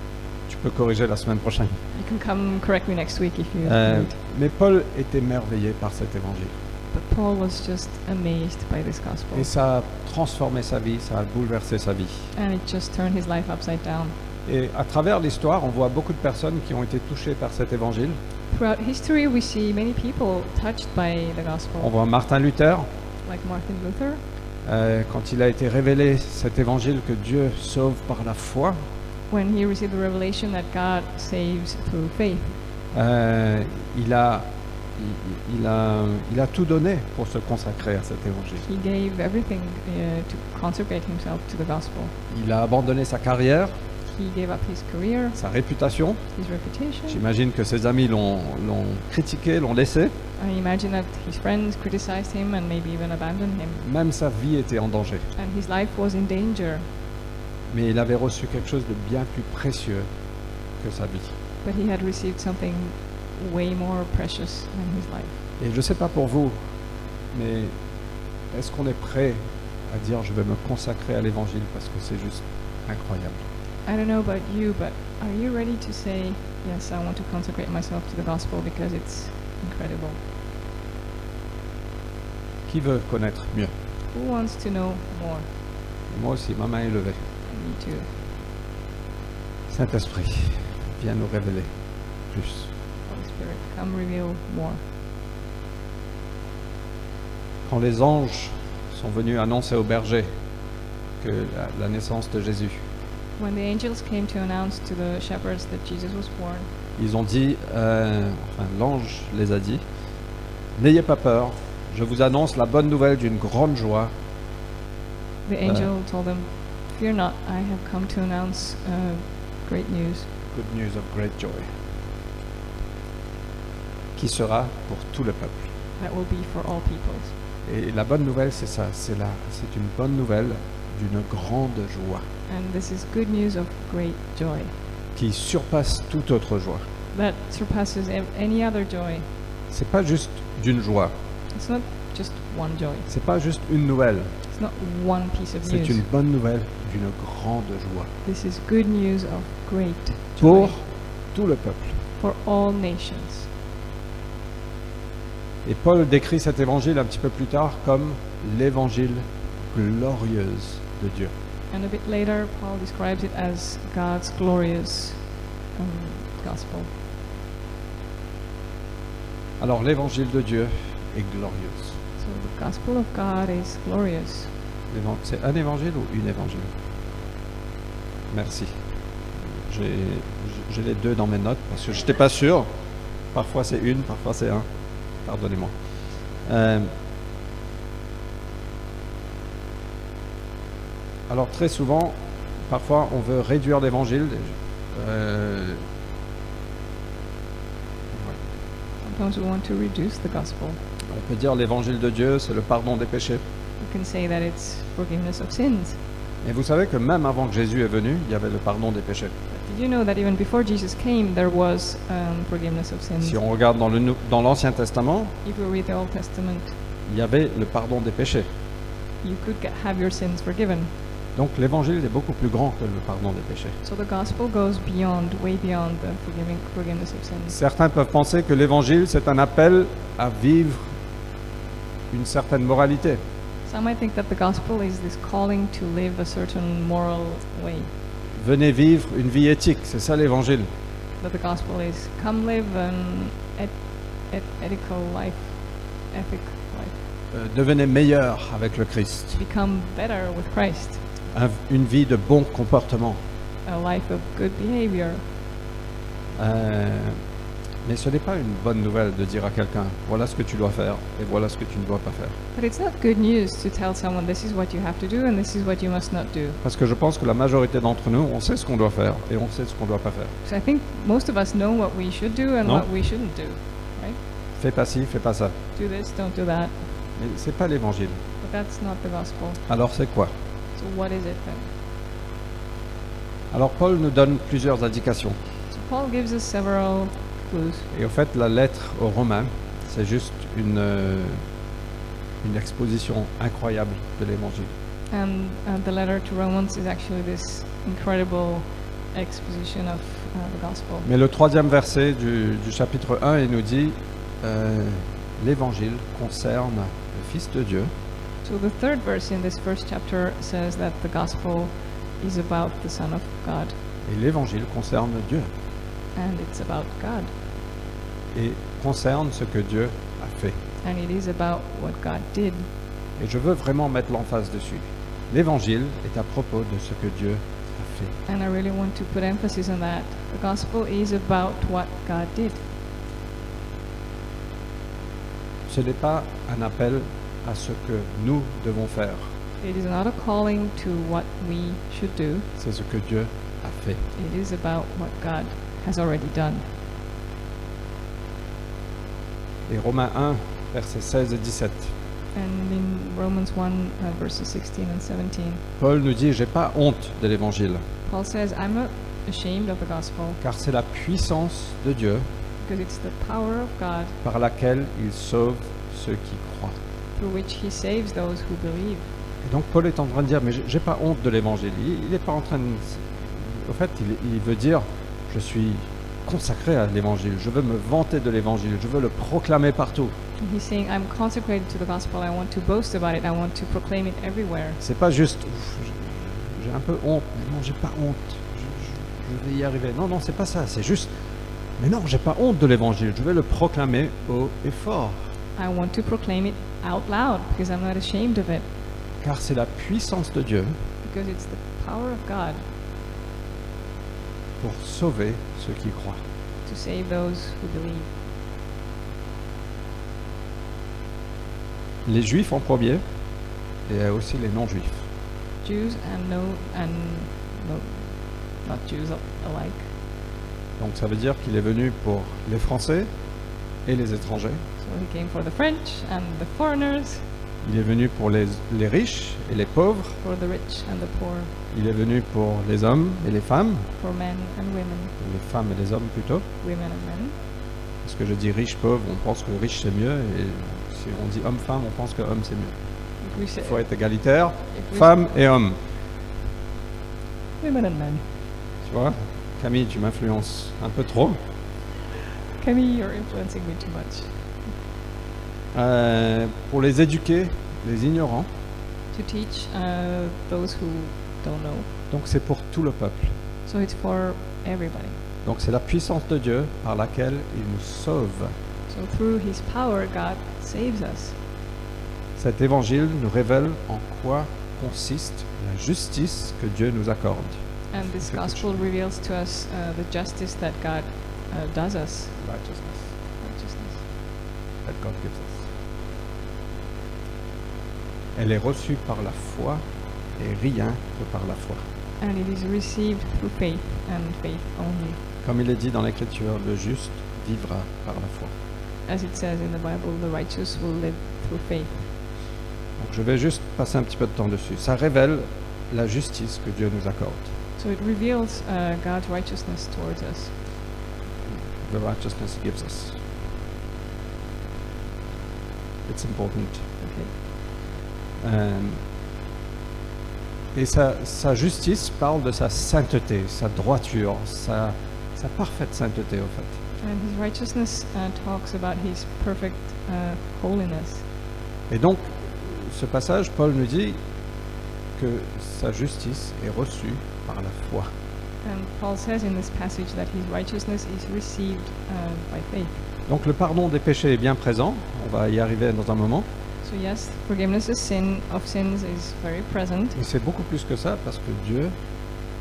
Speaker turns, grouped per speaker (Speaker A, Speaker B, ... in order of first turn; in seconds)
Speaker A: 0.5-1.8, 3.6-6.5, 9.3-12.3, 14.4-18.2, 21.8-22.9, 24.6-28.8, 32.9-38.6, 42.3-43.8, 45.3-46.2, 47.1-50.1, 53.8-55.3, 57.7-60.1, 60.8-61.3, 65.6-66.6, 67.3-67.7, 68.5-73.4, 82.7-83.7, 86.1-87.2, 89.7-91.7, 92.3-92.7, 97.6-100.3, 101.2-102.8, 107.0-109.8, 110.8-114.1, 115.6-115.9, 120.5-121.7, 124.2-125.7, 127.6-132.2, 135.2-136.9, 139.7-141.1, 143.1-144.3, 145.6-148.1, 150.4-152.0, 155.6-161.3, 169.6-172.0, 174.9-176.7, 178.3-178.8, 179.4-182.7, 183.3-184.7, 185.2-186.9, 191.3-195.8, 198.1-198.4, 201.1-203.4, 206.4-209.3, 213.2-215.3, 217.1-218.5, 221.3-223.8, 227.5-230.9, 232.1-233.2, 238.3-240.7, 247.3-249.4, 251.3-253.2, 256.4-257.2, 257.8-262.4, 266.6-270.3, 274.6-275.5, 277.1-278.2, 279.7-280.3, 283.5-285.4, 287.9-291.4, 292.4-294.7, 301.0-307.9, 314.0-315.5, 318.3-320.6, 323.2-328.1, 335.7-339.3, 342.6-344.1, 349.7-351.9, 355.8-357.8, 360.4-362.2, 364.2-366.8, 369.4-380.1, 384.8-391.1, 391.8-395.3, 399.2-400.7, 404.6-406.2, 412.0-413.0, 413.9-415.0, 420.8-423.1, 423.8-424.6, 427.6-430.2, 431.7-433.9, 435.2-436.4, 438.0-442.8, 443.6-445.8, 448.8-451.4, 455.7-458.5, 462.1-463.3, 465.4-468.5, 472.4-478.8, 482.4-483.1, 484.8-485.7, 488.3-489.8, 490.4-491.9, 495.4-498.5, 503.0-507.5, 511.4-513.2, 516.1-516.9, 518.4-519.0, 520.7-526.7, 531.9-534.2, 535.1-538.1, 543.3-546.5, 550.1-551.9
Speaker B: 1.9-4.2, 6.9-9.5, 12.3-14.1, 18.5-21.9, 23.2-24.2, 29.3-32.5, 38.6-42.1, 44.0-45.4, 46.4-47.2, 50.4-53.8, 55.4-56.8, 61.6-65.3, 73.8-80.2, 84.1-85.5, 87.4-88.2, 93.0-94.8, 103.4-106.7, 115.5-120.3, 126.0-127.3, 132.5-134.7, 137.1-139.2, 141.5-143.1, 144.5-146.0, 148.2-150.8, 152.2-153.5, 161.7-165.2, 165.8-166.9, 172.2-174.5, 199.0-200.8, 203.8-206.0, 209.5-213.4, 215.4-216.8, 219.2-220.9, 223.8-227.6, 233.7-237.9, 241.2-246.9, 249.3-251.0, 253.6-255.2, 262.5-266.6, 270.4-274.2, 275.8-276.8, 278.4-279.6, 280.8-281.7, 285.7-287.9, 295.1-301.1, 308.4-313.8, 316.1-317.3, 320.8-322.7, 328.2-332.6, 339.6-342.5, 344.1-346.6, 352.3-355.6, 358.1-360.4, 362.6-364.1, 367.1-369.0, 380.4-384.8, 395.6-398.6, 401.0-402.6, 406.6-408.1, 415.6-419.9, 424.8-427.2, 430.2-431.5, 434.0-435.1, 436.6-437.3, 443.2-443.8, 444.7-445.3, 447.6-448.2, 452.6-454.3, 459.1-461.9, 463.6-465.2, 468.9-471.4, 477.9-482.4, 483.4-484.0, 492.2-495.2, 499.1-502.1, 507.8-510.5, 517.0-517.3, 527.0-531.2, 538.6-543.0, 546.8-550.2